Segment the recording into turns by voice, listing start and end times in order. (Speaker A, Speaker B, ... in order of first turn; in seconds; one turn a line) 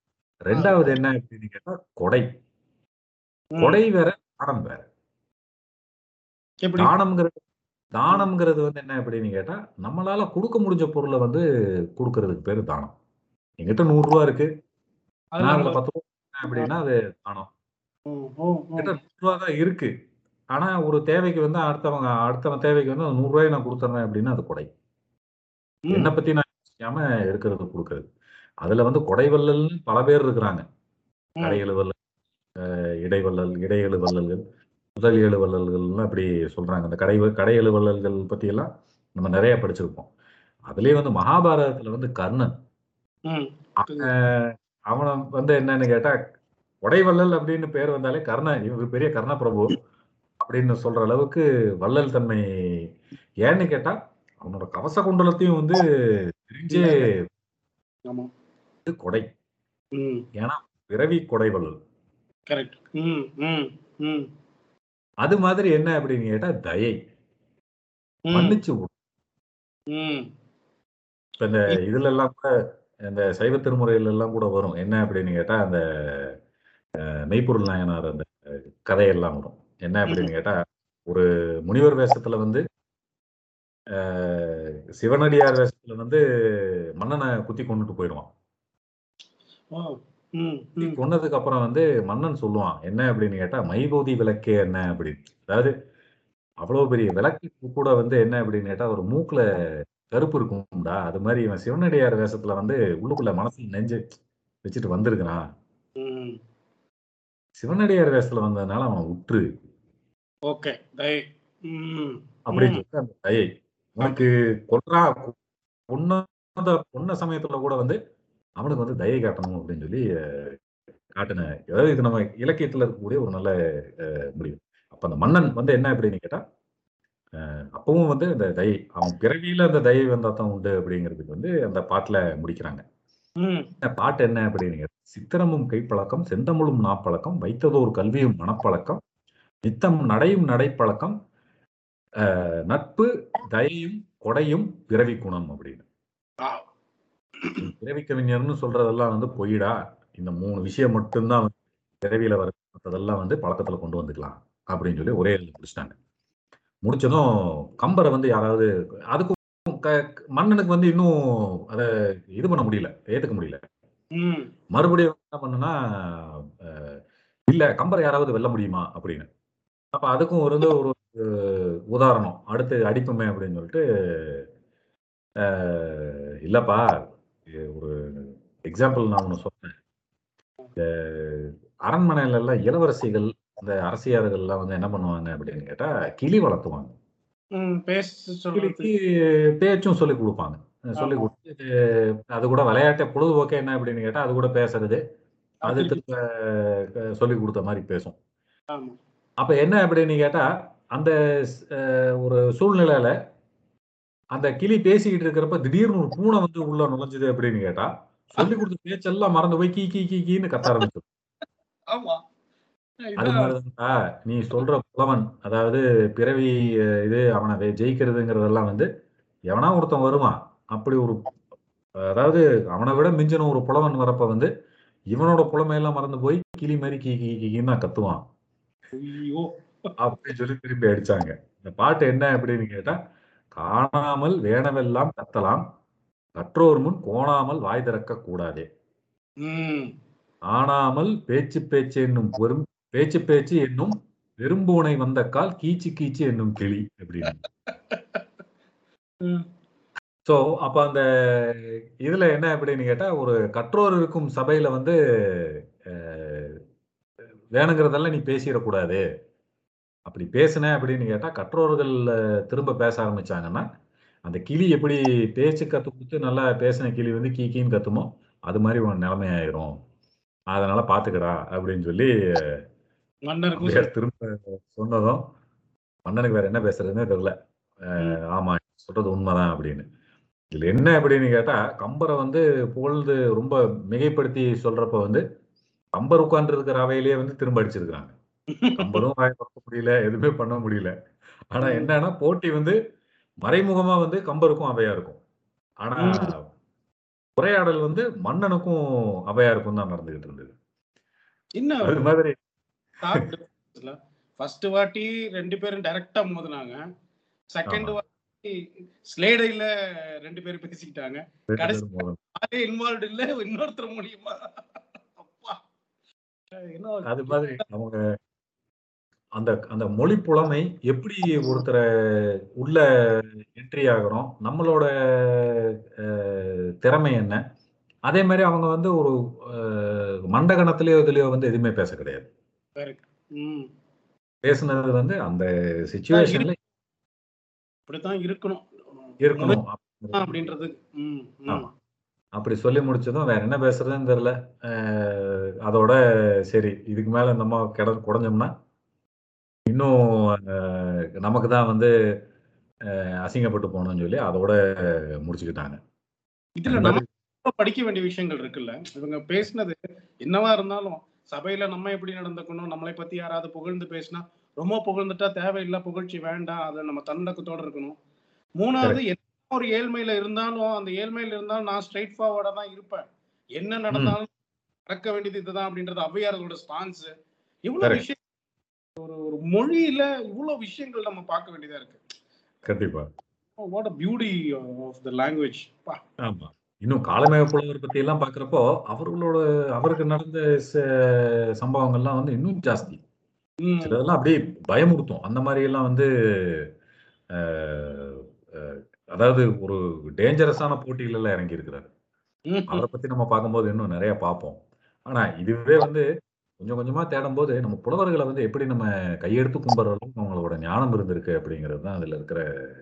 Speaker A: 0.4-2.2
Speaker B: 0.5-1.0
Speaker B: 3.5-3.8
Speaker A: 3.6-4.8
Speaker B: 6.6-6.9
Speaker A: 6.8-7.4
Speaker A: 7.9-11.4
Speaker A: 12.0-12.9
Speaker A: 13.6-14.5
Speaker B: 15.3-15.8
Speaker A: 15.4-17.5
Speaker B: 18.1-18.9
Speaker A: 18.8-19.9
Speaker A: 20.5-24.7
Speaker B: 25.9-26.1
Speaker A: 25.9-28.1
Speaker A: 28.6-30.6
Speaker A: 31.4-31.9
Speaker A: 32.6-34.4
Speaker A: 35.0-40.1
Speaker A: 40.7-42.5
Speaker B: 43.3-44.1
Speaker A: 43.8-46.1
Speaker A: 46.8-49.7
Speaker A: 50.4-52.9
Speaker A: 53.4-55.8
Speaker A: 56.4-57.1
Speaker B: 56.7-57.0
Speaker A: 58.9-59.2
Speaker B: 59.9-60.2
Speaker A: 60.4-61.7
Speaker B: 62.5-64.2
Speaker A: 65.2-66.9
Speaker B: 68.3-68.6
Speaker A: 68.3-68.9
Speaker B: 69.9-70.2
Speaker A: 71.4-72.5
Speaker A: 73.1-76.3
Speaker A: 77.1-80.5
Speaker A: 81.1-82.6
Speaker A: 84.0-88.3
Speaker B: 89.7-91.0
Speaker A: 90.8-95.7
Speaker A: 96.6-99.4
Speaker A: 100.1-104.0
Speaker A: 104.6-105.4
Speaker B: 106.0-106.4
Speaker A: 107.6-109.5
Speaker B: 110.5-112.8
Speaker A: 112.5-115.3
Speaker A: 115.9-118.0
Speaker A: 118.6-120.6
Speaker A: 121.1-126.4
Speaker A: 127.4-132.8
Speaker B: 133.4-133.7
Speaker A: 133.8-139.0
Speaker A: 139.6-141.1
Speaker A: 142.2-145.8
Speaker A: 147.6-151.5
Speaker A: 152.0-155.9
Speaker A: 156.8-163.6
Speaker B: 164.1-164.5
Speaker A: 164.7-166.9
Speaker A: 167.5-169.3
Speaker A: 169.9-174.4
Speaker A: 175.4-176.9
Speaker A: 177.5-179.7
Speaker A: 180.8-186.9
Speaker B: 187.6-188.9
Speaker A: 188.5-188.9
Speaker A: 189.6-195.0
Speaker B: 191.0-191.3
Speaker B: 195.6-196.0
Speaker A: 195.7-198.2
Speaker A: 199.4-203.1
Speaker A: 204.3-211.0
Speaker B: 211.9-212.2
Speaker B: 213.0-213.5
Speaker A: 213.2-218.8
Speaker A: 219.5-221.2
Speaker A: 222.0-224.5
Speaker A: 225.1-228.2
Speaker B: 228.9-229.4
Speaker A: 230.0-232.9
Speaker A: 233.6-235.6
Speaker A: 236.4-238.7
Speaker B: 239.4-239.9
Speaker A: 240.5-247.4
Speaker B: 247.7-248.2
Speaker A: 250.2-256.6
Speaker A: 257.5-259.0
Speaker A: 260.1-263.6
Speaker A: 264.2-269.7
Speaker A: 270.5-272.5
Speaker B: 273.3-273.9
Speaker A: 273.6-275.2
Speaker A: 276.1-277.3
Speaker A: 277.9-279.8
Speaker A: 280.5-285.2
Speaker A: 285.9-288.1
Speaker B: 288.6-289.0
Speaker A: 288.8-290.9
Speaker A: 291.5-292.8
Speaker B: 291.6-291.9
Speaker A: 293.4-295.2
Speaker A: 295.8-296.4
Speaker B: 296.0-296.3
Speaker A: 297.4-300.5
Speaker B: 301.6-302.1
Speaker A: 301.8-302.4
Speaker B: 303.0-306.8
Speaker B: 307.5-308.5
Speaker A: 307.7-308.0
Speaker B: 309.1-309.7
Speaker B: 310.2-311.8
Speaker A: 311.5-312.2
Speaker B: 312.4-314.4
Speaker B: 315.2-315.6
Speaker B: 316.6-317.6
Speaker A: 317.1-318.0
Speaker A: 319.4-327.4
Speaker A: 328.1-332.3
Speaker B: 332.8-333.6
Speaker A: 334.4-336.6
Speaker B: 336.1-336.5
Speaker B: 337.9-339.6
Speaker A: 339.2-340.3
Speaker B: 340.1-341.7
Speaker A: 342.4-346.0
Speaker A: 346.5-348.5
Speaker A: 349.7-351.9
Speaker A: 352.9-355.8
Speaker B: 356.6-368.0
Speaker A: 356.7-357.0
Speaker B: 368.6-373.0
Speaker B: 373.6-374.3
Speaker B: 374.9-377.1
Speaker B: 377.6-378.2
Speaker B: 379.0-382.0
Speaker A: 382.6-383.1
Speaker B: 383.6-386.0
Speaker A: 386.2-393.0
Speaker B: 393.6-394.0
Speaker A: 393.8-396.6
Speaker A: 397.4-401.9
Speaker B: 402.5-402.8
Speaker A: 402.7-406.0
Speaker A: 406.6-412.4